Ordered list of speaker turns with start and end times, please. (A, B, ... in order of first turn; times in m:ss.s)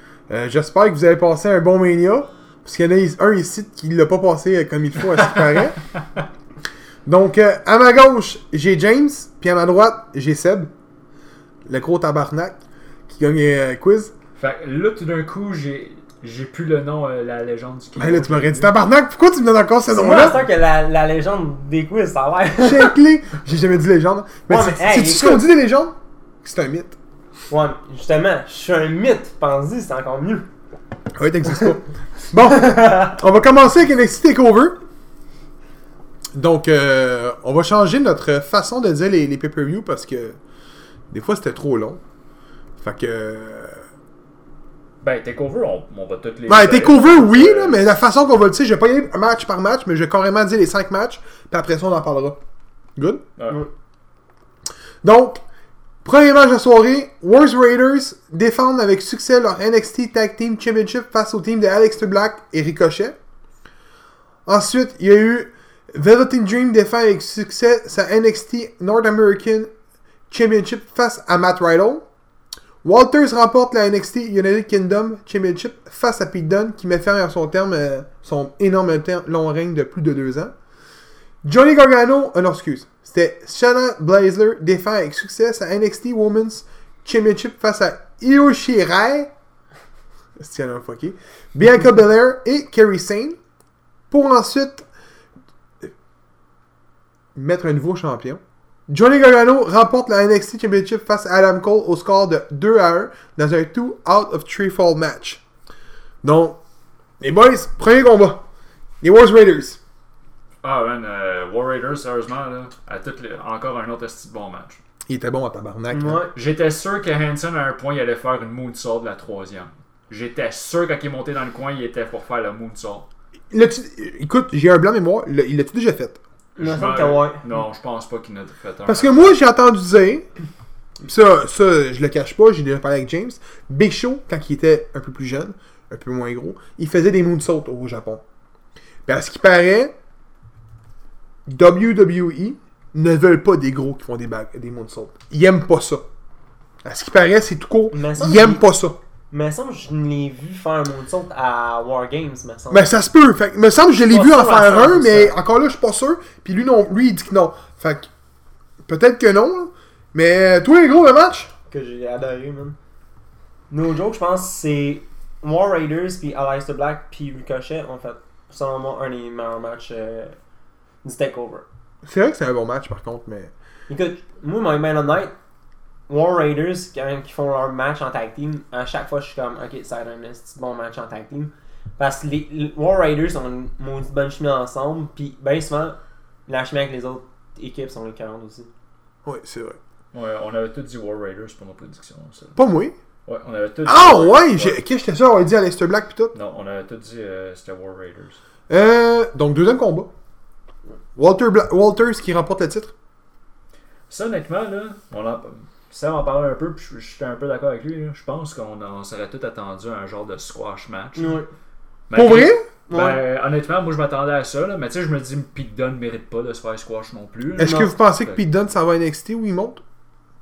0:00.3-0:05.8 A
0:05.2-0:05.6 B
0:07.1-0:10.7 A
0:11.7-0:14.1 A
0:14.4-0:18.7 B
0:18.0-0:20.5 A
0:19.9-0:23.0 C
0:22.6-0:27.0 A
0:24.5-0:25.4 C
0:27.5-0:30.5 C
0:31.2-0:34.8 A
0:36.4-0:40.4 A
0:41.1-0:42.0 A
0:42.8-0:43.8 A
0:45.0-0:47.8 B
0:46.5-0:52.4 A
0:53.0-0:53.2 A
0:53.4-0:53.6 B
0:55.0-0:55.4 A
0:56.0-1:03.2 A
1:04.5-1:09.7 A
1:10.3-1:12.0 A
1:12.8-1:20.5 A
1:21.4-1:29.3 A
1:30.4-1:33.4 A
1:34.1-1:34.8 A
1:37.4-1:45.4 A
1:46.2-1:46.6 A
1:47.2-1:48.4 A
1:49.0-1:49.8 A
1:50.6-1:54.8 B
1:55.1-1:56.3 A
1:55.9-1:56.3 C
1:56.3-2:03.1 B
2:03.5-2:06.2 A
2:06.6-2:07.4 C
2:06.6-2:09.3 B
2:08.9-2:10.3 A
2:11.0-2:18.2 A
2:19.1-2:19.9 A
2:21.5-2:26.0 A
2:26.8-2:29.0 A
2:27.9-2:28.6 C
2:29.3-2:33.0 C
2:32.7-2:38.1 A
2:34.1-2:35.4 C
2:38.8-2:41.5 A
2:41.7-2:42.8 C
2:43.7-2:50.4 C
2:51.0-2:51.7 C
2:52.0-2:53.5 A
2:53.9-2:55.3 C
2:56.1-3:08.7 C
3:09.2-3:09.8 A
3:10.1-3:12.6 B
3:12.6-3:13.0 A
3:13.3-3:14.8 B
3:13.9-3:16.3 A
3:16.3-3:18.4 B
3:18.7-3:20.1 A
3:21.2-3:22.9 A
3:24.1-3:31.4 B
3:31.2-3:31.5 C
3:32.1-3:38.4 B
3:32.1-3:32.7 A
3:32.9-3:33.2 C
3:37.6-3:39.8 A
3:37.6-3:37.9 C